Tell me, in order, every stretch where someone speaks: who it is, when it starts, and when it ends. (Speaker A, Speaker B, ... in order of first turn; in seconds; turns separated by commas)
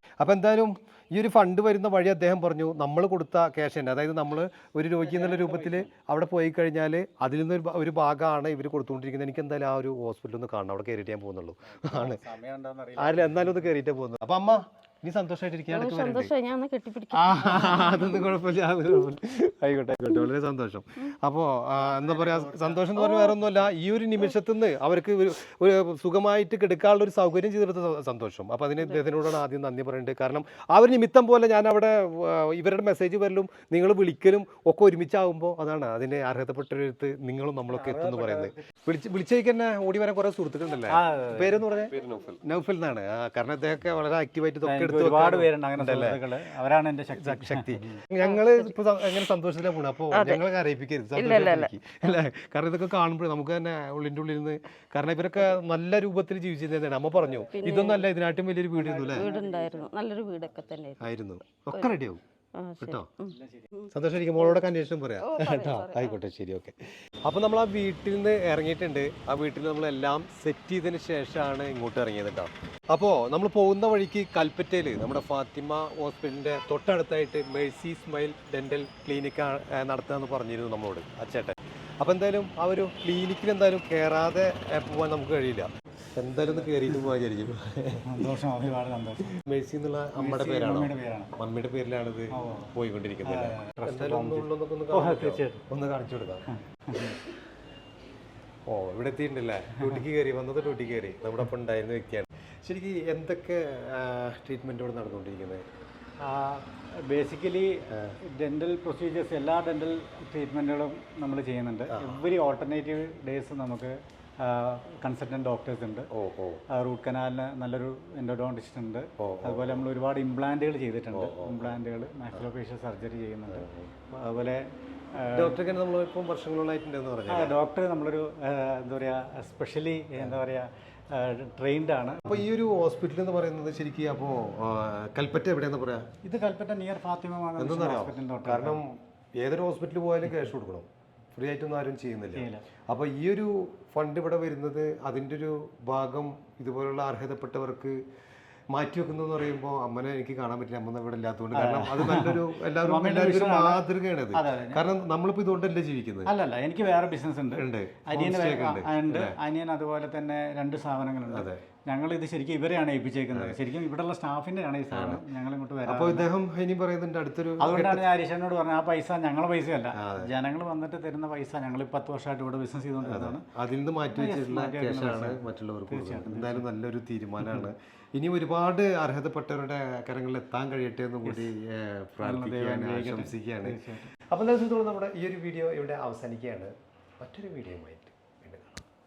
Speaker A: 0.2-12.2, Speaker B: 5.0-5.9, Speaker B: 11.7-13.7, Speaker A: 13.0-16.3, Speaker C: 15.7-18.2, Speaker A: 17.1-46.2, Speaker B: 21.8-23.7, Speaker B: 37.7-38.7, Speaker B: 40.9-42.1, Speaker B: 44.6-47.7, Speaker A: 47.2-59.2, Speaker C: 48.2-48.7, Speaker C: 50.1-50.5, Speaker C: 51.2-51.7, Speaker C: 57.5-58.1, Speaker B: 58.8-60.6, Speaker C: 59.1-62.0, Speaker A: 61.0-62.2, Speaker C: 62.6-64.6, Speaker A: 62.8-63.1, Speaker B: 63.3-63.7, Speaker A: 63.9-88.3, Speaker C: 65.2-66.2, Speaker B: 88.1-89.4, Speaker A: 89.4-96.5, Speaker B: 90.2-91.3, Speaker B: 92.3-92.7, Speaker B: 93.2-95.6, Speaker B: 96.5-97.2, Speaker A: 98.7-105.6, Speaker B: 106.2-116.1, Speaker A: 111.9-112.2, Speaker A: 116.1-116.6, Speaker B: 116.7-125.6, Speaker A: 119.2-119.8, Speaker A: 121.1-121.8, Speaker A: 123.5-123.9, Speaker A: 125.3-127.6, Speaker B: 127.3-132.4, Speaker A: 132.3-136.1, Speaker B: 136.2-138.8, Speaker A: 137.6-148.0, Speaker B: 142.3-142.7, Speaker A: 148.7-156.3, Speaker B: 151.5-154.8, Speaker B: 156.2-166.3, Speaker A: 157.5-159.4, Speaker A: 161.3-161.6, Speaker A: 164.9-165.2, Speaker A: 165.8-168.1, Speaker B: 167.6-173.4, Speaker A: 169.9-170.3, Speaker A: 173.0-183.8, Speaker B: 174.1-176.7, Speaker B: 177.4-177.7, Speaker B: 181.2-181.5, Speaker B: 182.2-184.1, Speaker A: 184.3-188.8